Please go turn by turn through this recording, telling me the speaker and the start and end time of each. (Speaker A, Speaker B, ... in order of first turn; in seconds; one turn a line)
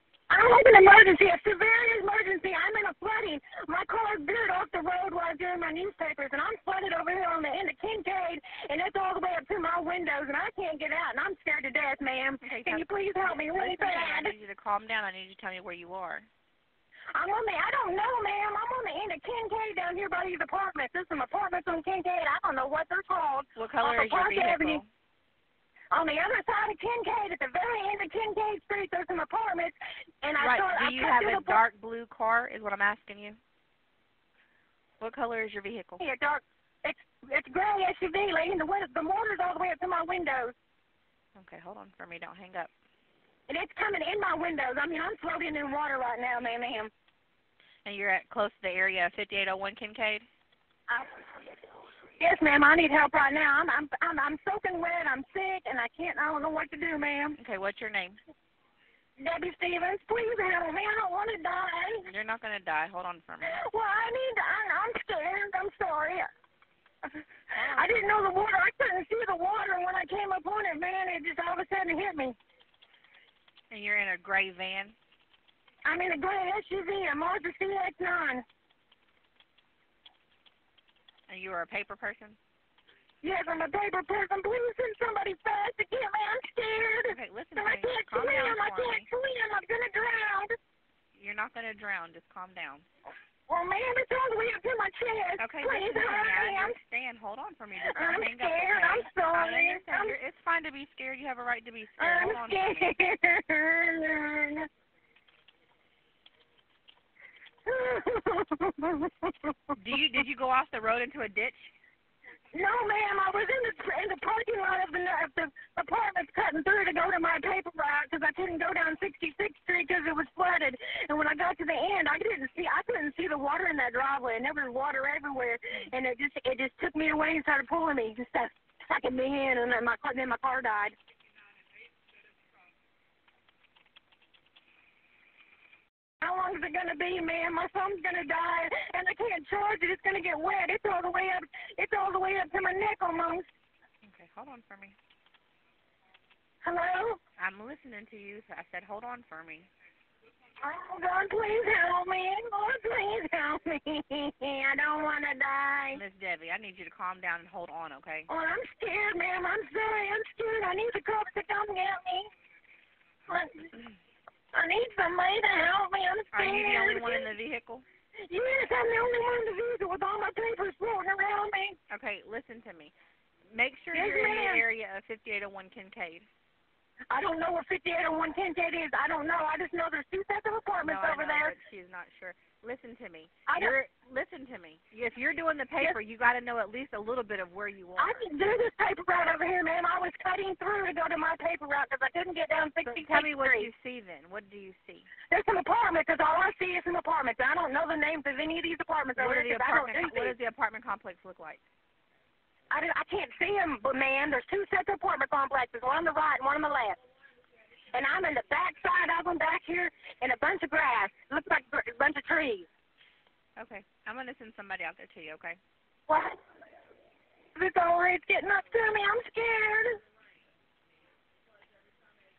Speaker A: 0.3-14.3
Speaker B: 12.4-16.3
Speaker A: 17.1-24.8
Speaker B: 23.6-24.9
Speaker A: 25.9-31.6
Speaker B: 30.4-33.4
Speaker B: 35.0-36.0
Speaker A: 36.0-40.5
Speaker B: 41.3-42.7
Speaker A: 43.5-46.9
Speaker B: 47.8-50.2
Speaker A: 50.9-51.4
Speaker A: 52.2-57.4
Speaker B: 57.4-58.2
Speaker A: 59.2-62.1
Speaker B: 62.0-63.6
Speaker A: 63.4-66.3
Speaker A: 67.0-72.4
Speaker B: 67.5-68.3
Speaker B: 73.7-74.9
Speaker A: 75.8-78.4
Speaker B: 81.3-82.4
Speaker A: 83.2-90.5
Speaker B: 87.0-89.1
Speaker B: 91.1-92.9
Speaker A: 93.5-96.8
Speaker B: 95.4-102.9
Speaker A: 97.8-100.1
Speaker A: 102.0-104.7
Speaker A: 107.7-109.7
Speaker B: 109.8-111.7
Speaker A: 112.5-130.9
Speaker A: 136.2-143.5
Speaker B: 144.0-144.9
Speaker A: 146.6-147.2
Speaker B: 147.4-149.7
Speaker A: 150.6-156.0
Speaker B: 155.9-158.3
Speaker A: 158.3-162.3
Speaker A: 163.3-163.8
Speaker A: 164.5-167.2
Speaker B: 166.3-167.8
Speaker A: 168.2-171.8
Speaker B: 171.9-172.9
Speaker B: 173.5-176.3
Speaker A: 173.9-174.6
Speaker A: 177.1-181.5
Speaker B: 180.8-188.2
Speaker A: 183.5-183.8
Speaker A: 188.0-193.7
Speaker B: 192.8-195.1
Speaker A: 195.3-200.3
Speaker B: 199.2-201.6
Speaker A: 202.7-207.0
Speaker A: 207.9-212.7
Speaker B: 213.6-215.6
Speaker A: 216.1-216.4
Speaker A: 217.5-220.0